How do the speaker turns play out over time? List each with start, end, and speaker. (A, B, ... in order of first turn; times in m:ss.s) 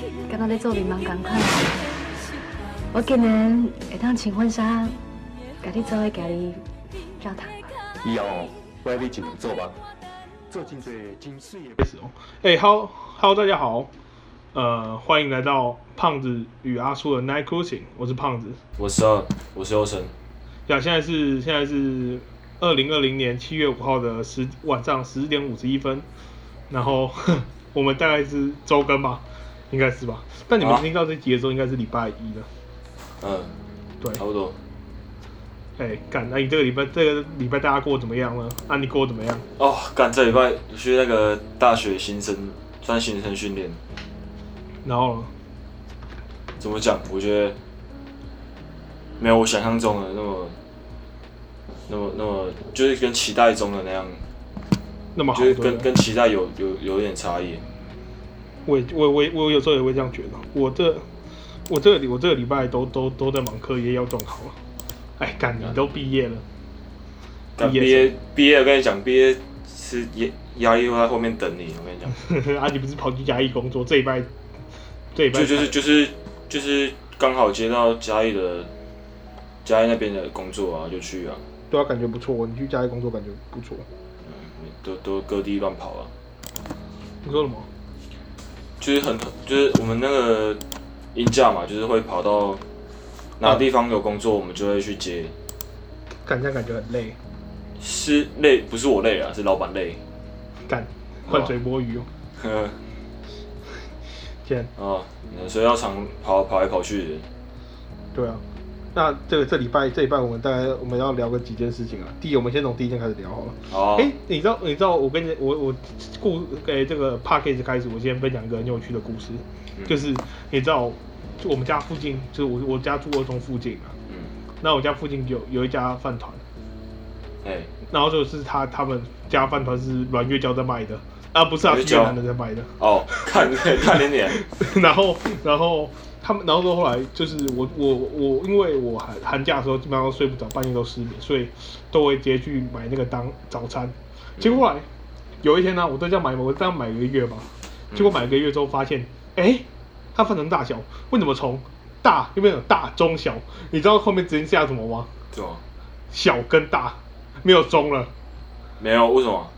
0:00.3-0:02.0 A
0:02.9-0:05.0 A
0:05.6-0:06.6 A
0:07.2-0:07.7 A
0:08.0-0:09.8 B
0:10.5-0:11.8 B
0:11.8-0:13.9 C
0:14.5-0:18.6 C
0:18.8-0:20.1 D
0:20.7-0:26.0 C
0:26.7-0:32.5 C
0:30.6-0:30.8 D
0:33.2-0:33.5 D
0:34.2-0:34.6 D
0:35.8-0:39.4 C
0:39.6-0:43.8 D
0:44.8-0:45.3 C
0:46.6-0:47.6 D
0:49.2-0:50.6 D
0:51.9-0:54.2 D
0:55.2-0:55.9 C
0:55.3-0:57.6 D
0:58.7-1:01.0 C
1:01.7-1:04.6 C
1:05.2-1:06.4 C
1:07.6-1:12.2 D
1:07.6-1:08.1 C
1:12.1-1:14.3 C
1:15.2-1:15.7 C
1:15.3-1:18.7 D
1:19.6-1:21.4 D
1:21.7-1:23.8 C
1:24.2-1:26.1 D
1:27.2-1:27.7 C
1:28.8-1:30.6 D
1:31.1-1:32.6 D
1:33.4-1:35.3 D
1:36.3-1:37.2 C
1:37.8-1:40.0 D
1:40.7-1:42.1 C
1:41.3-1:41.5 D
1:42.4-1:42.8 D
1:44.4-1:44.7 C
1:44.8-1:47.3 D
1:48.1-1:48.4 C
1:49.0-2:03.9 C
1:53.7-1:54.1 D
2:04.6-2:06.4 C
2:07.4-2:07.7 D
2:07.9-2:24.9 C
2:11.6-2:12.2 D
2:12.8-2:14.4 D
2:24.4-2:24.6 D
2:25.4-2:35.1 C
2:27.9-2:28.2 D
2:35.3-2:35.6 D
2:36.1-2:38.1 C
2:38.8-2:39.5 D